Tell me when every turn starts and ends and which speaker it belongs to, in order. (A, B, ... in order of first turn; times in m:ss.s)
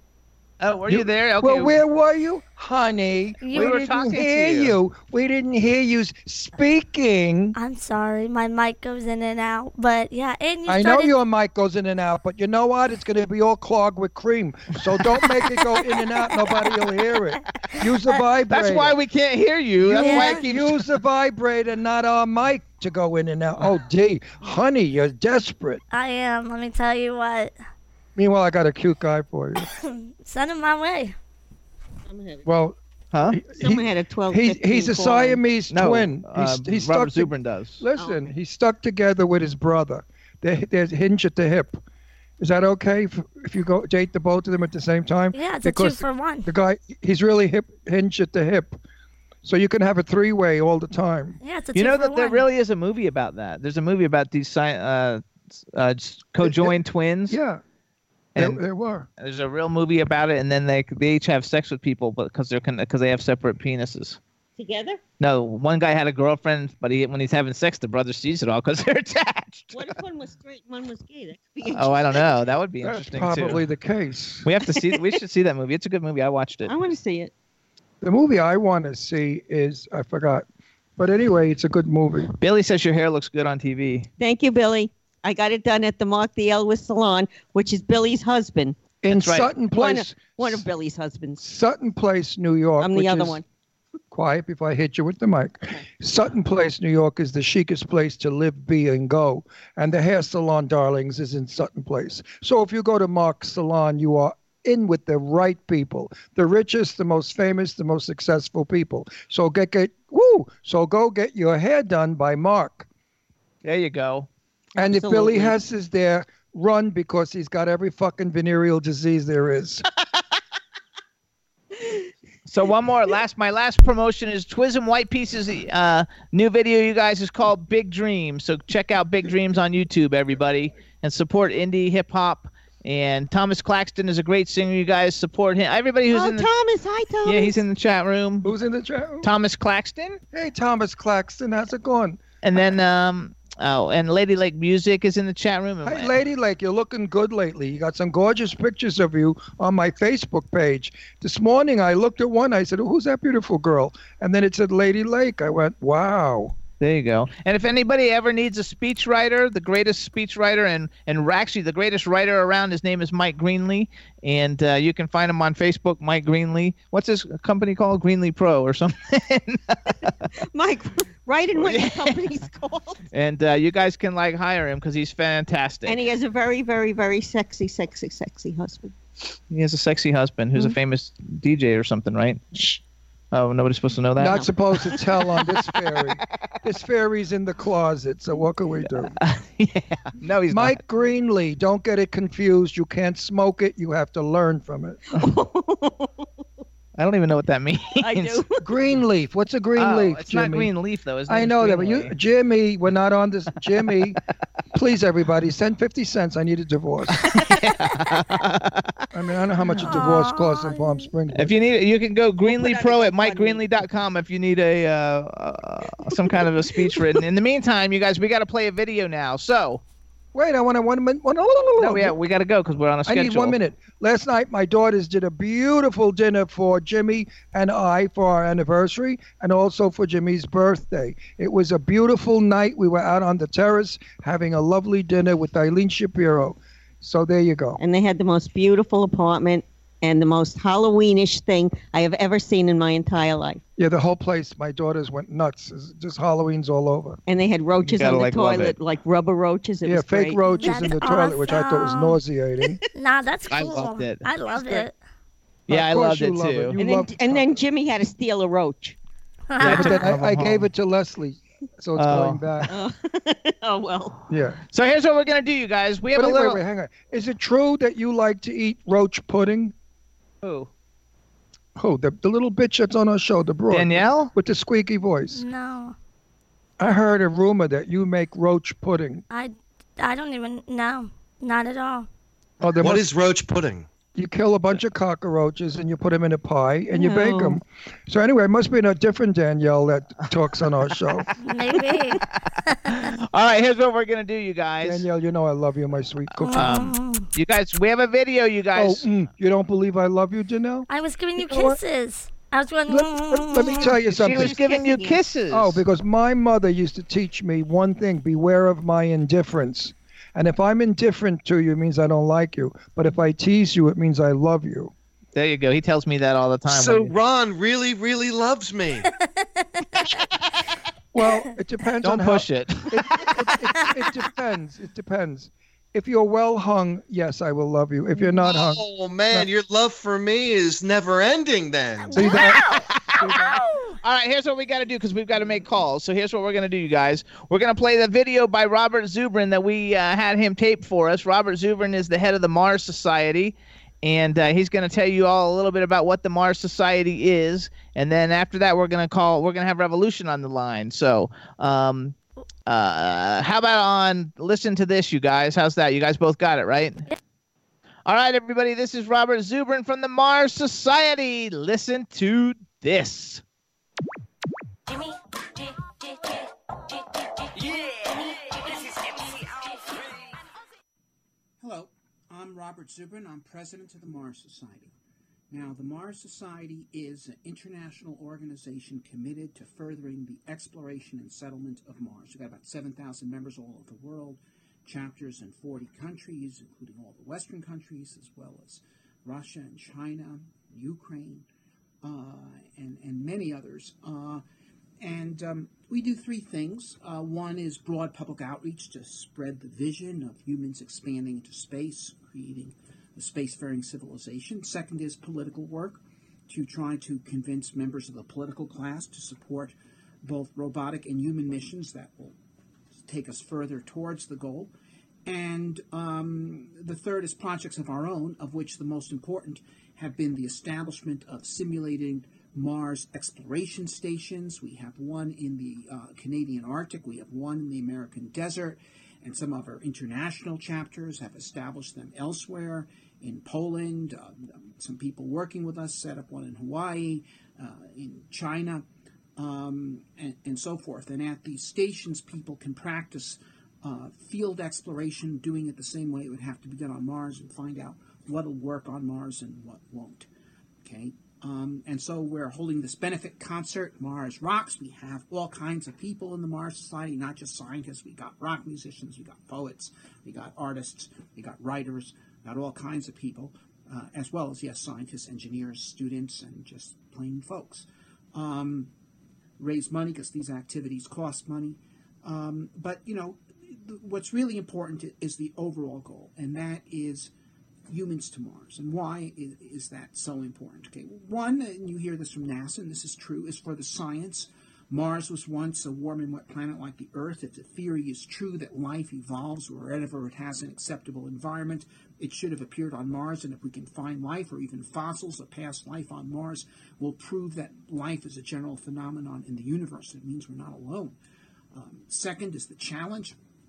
0:00.6-0:01.8 A
0:00.9-0:07.6 B
0:03.4-0:03.9 C
0:03.5-0:04.7 A
0:07.5-0:11.1 C
0:10.6-0:19.0 B
0:18.5-0:20.8 A
0:19.8-0:25.8 B
0:19.9-0:20.4 C
0:25.9-0:27.5 C
0:28.2-0:29.7 B
0:29.8-0:31.1 C
0:32.1-0:32.4 D
0:32.4-0:41.8 B
0:33.1-0:33.4 A
0:33.6-0:35.4 D
0:35.7-0:37.8 A
0:42.4-0:48.8 B
0:45.3-0:46.5 C
0:49.4-0:51.4 B
0:51.4-0:52.4 C
0:51.7-0:55.2 A
0:55.7-0:57.4 A
0:56.4-0:57.6 B
0:58.4-0:59.0 B
0:59.2-1:04.2 A
1:04.6-1:05.0 D
1:05.2-1:09.9 A
1:09.7-1:12.3 D
1:11.7-1:13.6 A
1:12.8-1:14.5 B
1:14.4-1:16.8 A
1:14.8-1:15.1 D
1:16.7-1:17.3 D
1:18.0-1:20.4 B
1:21.0-1:22.3 B
1:22.4-1:24.1 A
1:24.2-1:28.8 D
1:29.0-1:30.6 B
1:29.1-1:29.5 A
1:29.7-1:31.4 D
1:31.4-1:33.4 B
1:32.8-1:33.4 D
1:34.1-1:52.9 B
1:53.6-1:54.3 A
1:54.8-1:59.8 B
1:54.9-1:55.6 D
2:02.4-2:16.5 A
2:16.1-2:17.6 D
2:17.2-2:18.5 A
2:18.4-2:19.3 B
2:19.2-2:20.2 A
2:20.3-2:22.2 B
2:22.4-2:26.1 A
2:25.8-2:36.5 B
2:36.8-2:50.1 A
2:50.5-2:53.0 D
2:51.6-2:52.2 A
2:53.1-2:56.0 A
2:55.8-2:59.0 D
2:59.5-3:02.8 A
3:03.3-3:05.0 A
3:04.2-3:09.1 B
3:04.2-3:04.9 D
3:09.2-3:10.8 A
3:10.5-3:15.2 B
3:15.1-3:16.3 D
3:17.0-3:18.4 A
3:18.0-3:18.6 D
3:18.6-3:20.7 B
3:19.8-3:22.1 A
3:21.3-3:24.2 B
3:24.7-3:27.2 B
3:27.2-3:28.9 A
3:29.1-3:31.5 B
3:29.8-3:31.0 C
3:31.3-3:39.8 A
3:32.4-3:33.6 D
3:40.3-3:42.2 B
3:41.8-3:43.6 A
3:43.0-3:57.8 B
3:57.8-4:03.6 D
4:03.8-4:07.2 B
4:07.3-4:10.5 D
4:07.8-4:08.7 A
4:09.8-4:12.8 B
4:10.5-4:12.2 C
4:12.9-4:14.9 C
4:13.5-4:14.2 A
4:14.5-4:14.8 B
4:15.7-4:16.8 A
4:15.7-4:17.5 B
4:16.8-4:19.0 D
4:19.5-4:20.1 C
4:19.6-4:22.7 B
4:19.6-4:20.7 A
4:22.0-4:22.4 A
4:22.7-4:24.2 D
4:24.3-4:24.6 B
4:24.7-4:26.6 A
4:26.1-4:29.7 B
4:30.4-4:30.7 A
4:31.8-4:35.4 B
4:33.7-4:34.3 A
4:35.3-4:35.9 C
4:36.8-4:39.2 B
4:39.3-4:42.1 C
4:42.6-4:43.1 B
4:42.8-4:43.9 E
4:44.1-4:51.3 B
4:46.9-4:47.6 D
4:51.4-4:53.0 C
4:52.9-4:55.0 A
4:54.8-4:56.9 B
4:56.4-4:59.1 A
4:56.4-4:57.3 C
4:58.7-5:01.8 B
5:00.9-5:04.0 C
5:02.9-5:04.6 B
5:03.8-5:05.8 A
5:04.2-5:05.2 D
5:05.5-5:14.9 B
5:15.3-5:17.1 A
5:16.7-5:19.1 E
5:21.1-5:29.5 B
5:22.0-5:23.3 A
5:28.4-5:32.3 E
5:32.0-5:32.8 C
5:32.1-5:32.6 B
5:32.4-5:57.0 A
5:33.2-5:33.6 B
5:58.0-6:03.4 A
6:04.9-6:10.1 F
6:11.6-6:14.9 G
6:15.5-6:31.4 G
6:32.0-6:34.4 G
6:35.0-6:52.3 G
6:53.0-6:54.7 G
6:55.2-7:18.8 G
7:19.4-7:30.3 G
7:30.8-7:48.9 G
7:49.6-7:57.3 G
7:57.9-8:21.2 G
8:21.7-8:23.4 G